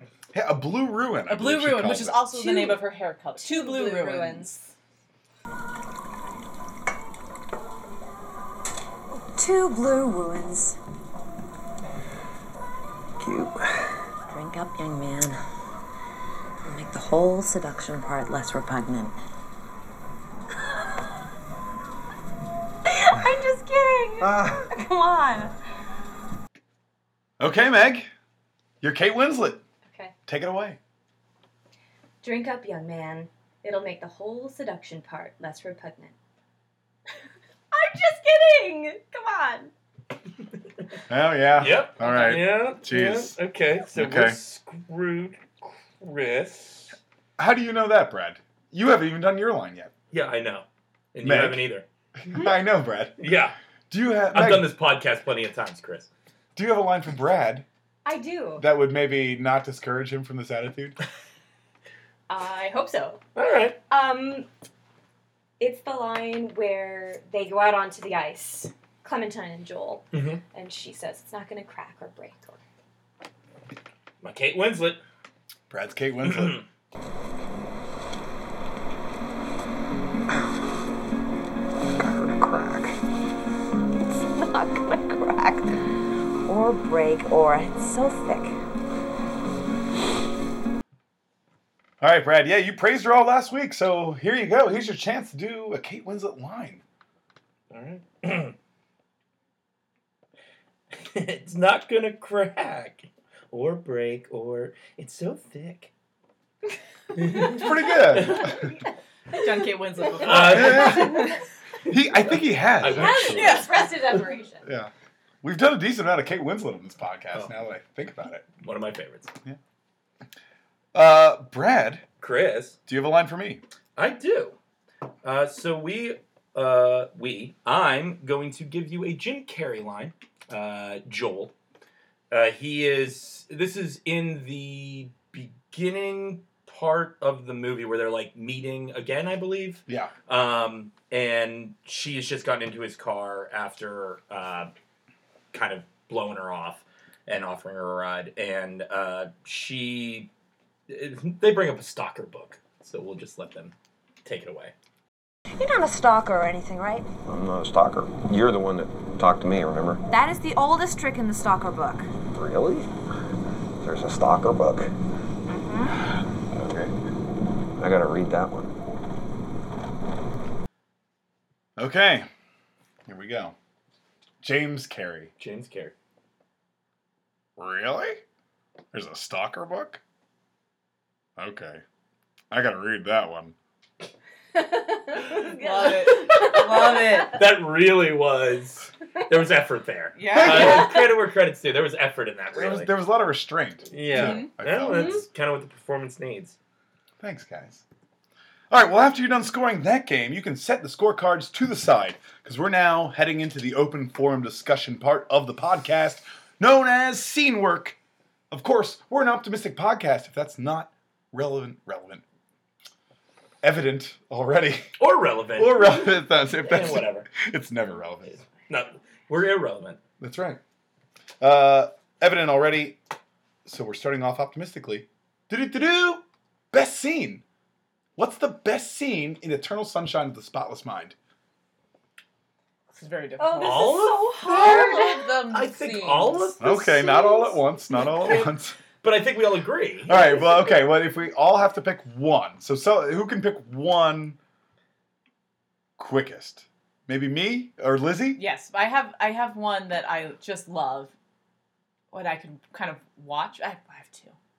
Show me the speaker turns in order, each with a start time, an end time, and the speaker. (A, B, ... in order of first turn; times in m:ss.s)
0:00.3-0:02.2 A
0:01.3-0:04.6 B
0:02.3-0:04.7 C
0:09.4-0:10.8 D
0:13.2-0:13.6 E
0:14.3-0:15.4 D
0:16.6-0:19.2 D
0:22.9-0:25.5 C
0:27.4-0:28.1 A
0:28.8-0:29.6 A
0:29.9-0:30.1 C
0:30.3-0:30.8 A
0:32.2-0:36.1 C
0:37.7-0:39.7 C
0:41.1-0:43.4 A
0:41.6-0:47.0 F
0:43.9-0:44.4 A
0:47.4-0:49.9 A
0:50.1-0:51.9 F
0:51.2-0:51.6 A
0:52.2-0:53.2 A
0:53.2-0:53.6 F
0:53.9-0:54.7 A
0:54.3-0:56.1 F
0:56.6-0:57.7 A
0:58.0-0:58.6 C
0:58.6-1:01.0 A
1:02.3-1:03.2 C
1:03.4-1:03.8 F
1:03.9-1:04.5 C
1:05.6-1:12.6 C
1:10.1-1:10.4 F
1:14.2-1:15.0 F
1:15.7-1:16.6 A
1:16.2-1:16.6 F
1:21.8-1:23.0 E
1:24.2-1:28.6 D
1:32.0-1:36.8 A
1:37.7-1:38.6 F
1:41.0-1:45.9 F
1:47.2-1:48.6 F
1:47.4-1:47.7 C
1:47.5-1:48.6 A
1:49.3-1:51.4 B
1:50.2-1:51.3 C
1:50.2-1:51.3 F
1:50.3-1:51.3 A
1:51.9-1:53.9 A
1:52.8-1:53.6 F
1:52.8-1:54.7 C
1:53.3-1:54.0 B
1:54.6-1:54.9 A
1:55.4-1:58.5 A
1:58.6-1:59.3 F
2:00.9-2:02.0 A
2:02.2-2:02.8 F
2:02.9-2:03.6 A
2:04.0-2:04.6 F
2:05.2-2:11.5 F
2:12.3-2:24.7 F
2:19.9-2:20.1 A
2:25.5-2:30.3 F
2:30.9-2:33.7 F
2:34.2-2:34.7 F
2:35.6-2:37.1 D
2:37.3-2:40.0 E
2:40.1-2:42.1 D
2:42.3-2:42.9 E
2:43.8-2:44.9 E
2:45.5-2:46.0 D
2:46.5-2:46.9 E
2:47.8-2:48.7 E
2:51.8-2:52.3 A
2:53.1-2:53.6 A
2:54.4-2:55.3 A
2:55.4-2:55.9 F
2:57.6-2:58.2 A
2:58.9-3:00.0 A
3:01.4-3:01.8 A
3:02.5-3:03.6 A
3:04.6-3:07.3 C
3:05.3-3:07.4 B
3:07.3-3:12.9 F
3:10.2-3:10.9 B
3:10.3-3:11.0 A
3:12.5-3:15.2 A
3:13.9-3:16.6 F
3:14.1-3:14.5 B
3:14.9-3:15.2 C
3:17.2-3:17.8 A
3:18.7-3:28.0 A
3:28.5-3:32.2 A
3:33.6-3:34.9 A
3:35.0-3:37.3 F
3:35.6-3:38.4 A
3:38.7-3:40.0 F
3:40.2-3:40.6 A
3:41.4-3:43.0 A
3:43.7-3:47.4 A
3:48.2-3:51.2 A
3:52.9-3:56.6 B
3:53.4-3:55.3 C
3:53.6-3:57.0 F
3:56.6-3:58.8 A
3:56.9-3:57.6 C
3:58.0-4:00.4 F
4:00.1-4:04.4 A
4:06.0-4:08.4 A
4:08.4-4:11.1 B
4:12.1-4:14.4 B